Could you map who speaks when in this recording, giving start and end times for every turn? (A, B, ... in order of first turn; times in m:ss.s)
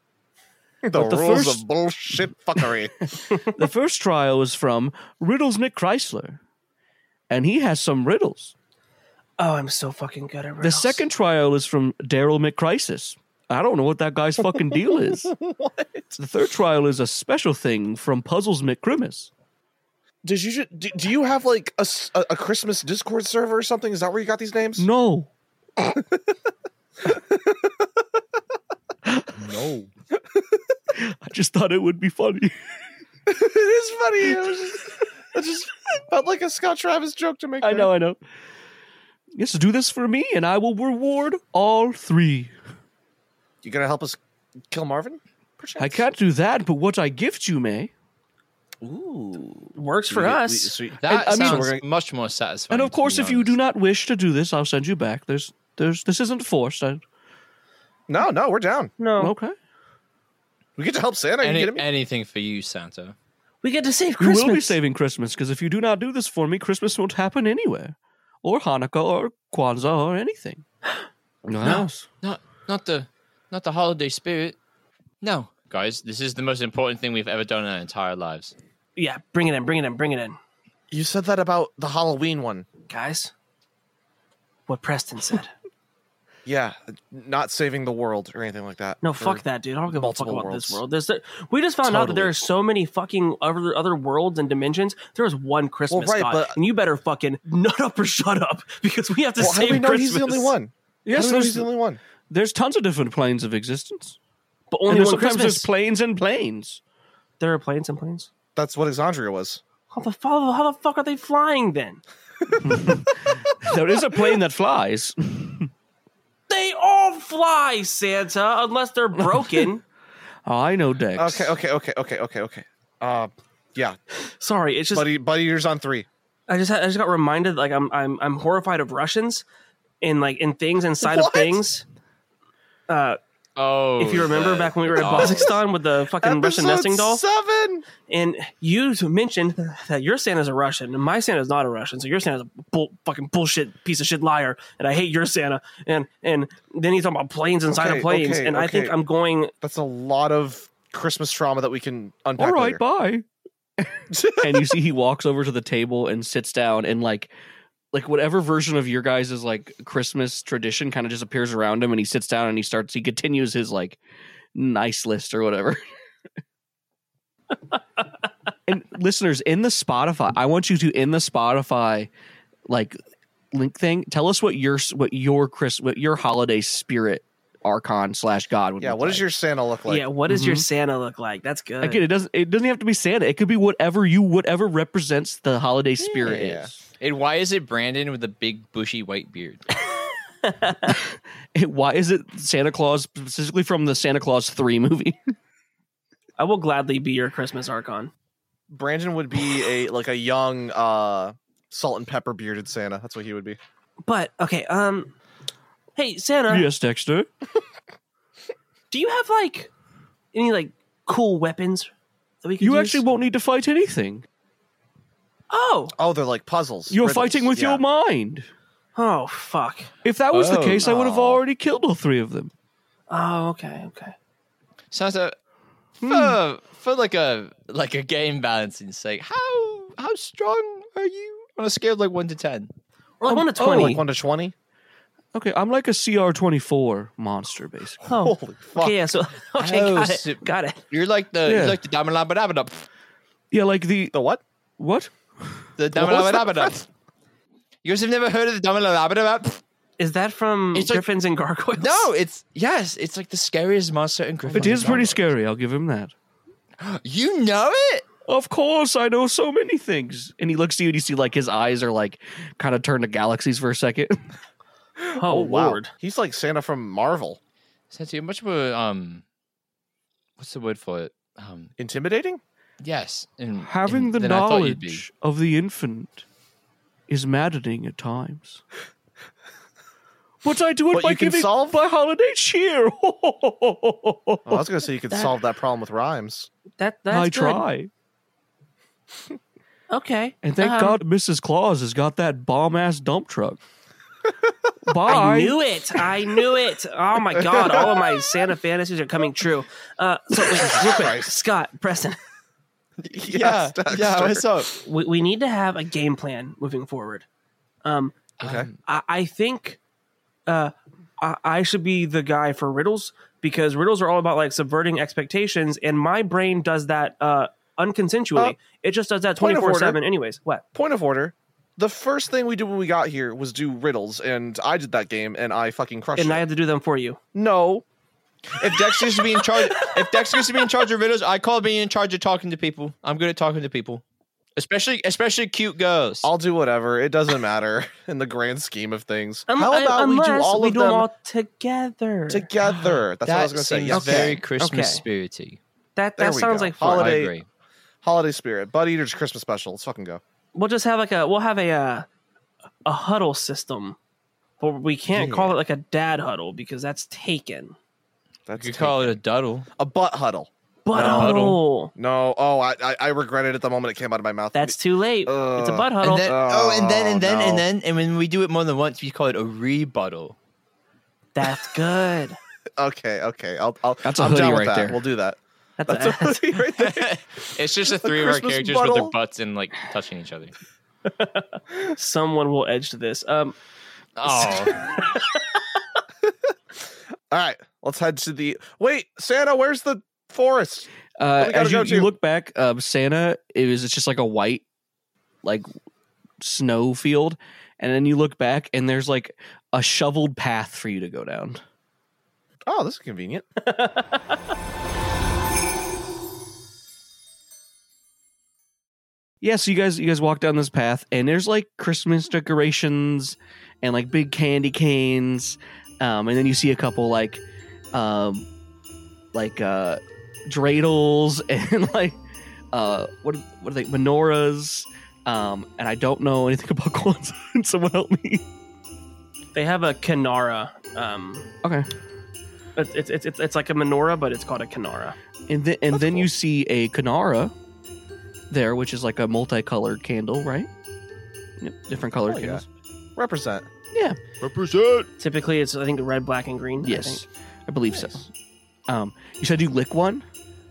0:00.8-0:03.1 A
0:00.9-0:02.7 B
0:03.5-0:06.4 B
0:07.3-0:08.5 B
0:09.4-0:11.0 C
0:10.6-0:15.3 B
0:15.0-0:16.2 A
0:16.2-0:19.3 B
0:20.2-0:24.9 A
0:24.8-0:25.3 B
0:25.8-0:26.2 A
0:27.0-0:27.7 A
0:29.1-0:29.5 B
0:30.9-0:32.6 B
0:33.3-0:37.9 A
0:37.6-0:38.2 B
0:39.3-0:42.5 B
0:43.6-0:44.2 A
0:44.7-0:46.1 A
0:45.8-0:47.9 B
0:48.8-0:51.8 A
0:49.7-0:50.7 C
0:51.0-0:53.6 D
0:51.0-0:51.7 B
0:52.7-0:57.0 B
0:58.1-0:58.9 A
0:59.0-0:59.3 C
0:59.2-0:59.5 B
1:00.8-1:01.8 A
1:01.4-1:03.1 D
1:03.6-1:04.8 C
1:04.2-1:10.6 B
1:11.4-1:12.1 B
1:12.2-1:14.6 D
1:15.2-1:18.5 D
1:19.0-1:20.4 C
1:20.9-1:22.7 A
1:22.9-1:23.3 C
1:24.7-1:25.5 C
1:26.4-1:30.8 A
1:29.0-1:40.6 C
1:31.9-1:32.2 A
1:35.9-1:36.6 A
1:39.4-1:42.0 A
1:41.0-1:41.7 B
1:42.3-1:44.2 B
1:44.7-1:45.7 C
1:44.9-1:46.8 B
1:47.4-1:48.3 C
1:48.6-1:49.6 A
1:49.9-1:52.0 C
1:52.4-1:53.3 A
1:52.6-1:55.7 B
1:56.5-1:59.8 C
1:59.2-1:59.7 B
2:00.4-2:01.5 B
2:01.2-2:04.0 A
2:04.4-2:05.1 C
2:04.9-2:06.1 A
2:06.5-2:09.4 C
2:10.0-2:11.8 C
2:11.0-2:11.6 A
2:12.9-2:13.2 C
2:13.6-2:15.5 D
2:14.0-2:17.2 C
2:14.9-2:15.6 A
2:16.2-2:17.8 A
2:18.1-2:29.5 C
2:27.7-2:29.0 A
2:29.6-2:32.8 A
2:32.4-2:33.2 B
2:33.8-2:37.3 B
2:34.1-2:34.7 A
2:37.9-2:44.0 B
2:44.5-2:45.8 B
2:48.7-2:52.1 B
2:52.7-2:53.0 B
2:53.5-2:59.3 B
2:58.8-3:00.0 A
2:59.9-3:02.0 C
3:00.3-3:00.6 B
3:01.8-3:06.7 B
3:06.1-3:06.7 A
3:07.0-3:09.6 D
3:10.4-3:11.0 C
3:11.5-3:15.3 B
3:16.4-3:18.1 C
3:18.7-3:23.6 A
3:24.0-3:25.1 C
3:26.0-3:26.7 C
3:26.5-3:27.3 B
3:28.9-3:29.7 C
3:30.3-3:31.9 C
3:32.4-3:33.0 C
3:32.6-3:34.2 B
3:35.5-3:35.9 C
3:36.0-3:37.8 A
3:36.9-3:38.5 B
3:39.0-3:39.9 C
3:40.0-3:42.5 B
3:40.3-3:41.0 D
3:40.8-3:41.3 A
3:43.1-3:44.1 C
3:44.9-3:45.3 D
3:46.0-3:46.4 B
3:46.0-3:52.7 D
3:53.2-3:54.0 C
3:53.2-3:54.0 B
3:53.6-3:54.5 A
3:55.3-3:58.0 B
3:58.0-4:00.8 C
3:58.1-3:59.0 A
3:59.6-4:02.8 D
4:01.4-4:01.8 B
4:03.5-4:04.1 B
4:04.1-4:04.4 A
4:04.8-4:05.7 B
4:05.8-4:06.8 D
4:05.9-4:06.8 A
4:07.8-4:09.6 D
4:10.0-4:12.1 C
4:10.7-4:11.0 D
4:11.8-4:15.3 D
4:14.5-4:15.1 A
4:14.5-4:16.1 B
4:16.8-4:18.0 D
4:18.3-4:24.2 B
4:25.0-4:27.4 A
4:25.2-4:25.9 C
4:27.9-4:29.2 D
4:30.4-4:31.7 D
4:31.8-4:32.4 A
4:32.8-4:35.0 D
4:33.6-4:36.2 B
4:37.1-4:38.6 B
4:40.4-4:44.7 B
4:40.9-4:41.8 A
4:44.4-4:46.5 A
4:46.8-4:47.6 C
4:47.1-4:47.9 B
4:49.9-4:51.0 C
4:50.4-4:53.6 B
4:54.8-4:55.6 B
4:55.0-5:02.2 C
4:57.3-4:58.3 A
5:00.5-5:01.3 A
5:03.0-5:04.8 D
5:03.1-5:04.5 A
5:04.8-5:07.2 C
5:07.8-5:08.2 C
5:08.4-5:08.7 D
5:08.4-5:08.7 A
5:08.8-5:09.8 C
5:10.5-5:20.6 C
5:19.4-5:20.0 A
5:20.7-5:26.4 A
5:26.2-5:27.2 C
5:27.3-5:27.8 A
5:28.6-5:34.0 D
5:28.6-5:29.2 A
5:34.6-5:36.3 D
5:36.2-5:41.1 A
5:39.5-5:42.5 C
5:42.3-5:44.4 A
5:42.6-5:45.6 D
5:43.9-5:45.0 C
5:46.0-5:47.1 C
5:46.2-5:47.3 A
5:46.9-5:47.4 D
5:48.0-5:50.2 A
5:50.5-5:52.0 C
5:52.8-5:54.0 C
5:54.6-5:57.8 C
5:55.1-5:55.5 A
5:58.5-5:59.2 A
5:58.6-5:59.7 D
5:59.8-6:07.6 A
6:00.8-6:01.9 C
6:00.9-6:01.6 D
6:04.5-6:06.3 C
6:06.0-6:10.4 D
6:11.3-6:12.4 C
6:12.8-6:17.2 A
6:14.0-6:15.0 B
6:15.8-6:16.5 C
6:16.8-6:20.5 D
6:17.9-6:19.1 A
6:21.0-6:23.5 C
6:24.2-6:24.9 D
6:27.3-6:32.1 A
6:31.2-6:34.6 B
6:36.4-6:41.6 B
6:42.7-6:43.4 A
6:43.6-6:44.4 C
6:49.4-6:57.4 B
6:57.9-6:58.5 B
6:59.3-7:02.2 B
7:02.7-7:08.4 B
7:09.5-7:11.5 C
7:12.8-7:15.2 C
7:15.5-7:17.5 B
7:18.5-7:20.7 B
7:21.6-7:22.6 B
7:22.3-7:22.6 A
7:23.2-7:23.7 A
7:23.9-7:24.2 B
7:24.4-7:25.0 D
7:25.2-7:27.2 C
7:26.8-7:28.3 B
7:28.9-7:30.2 B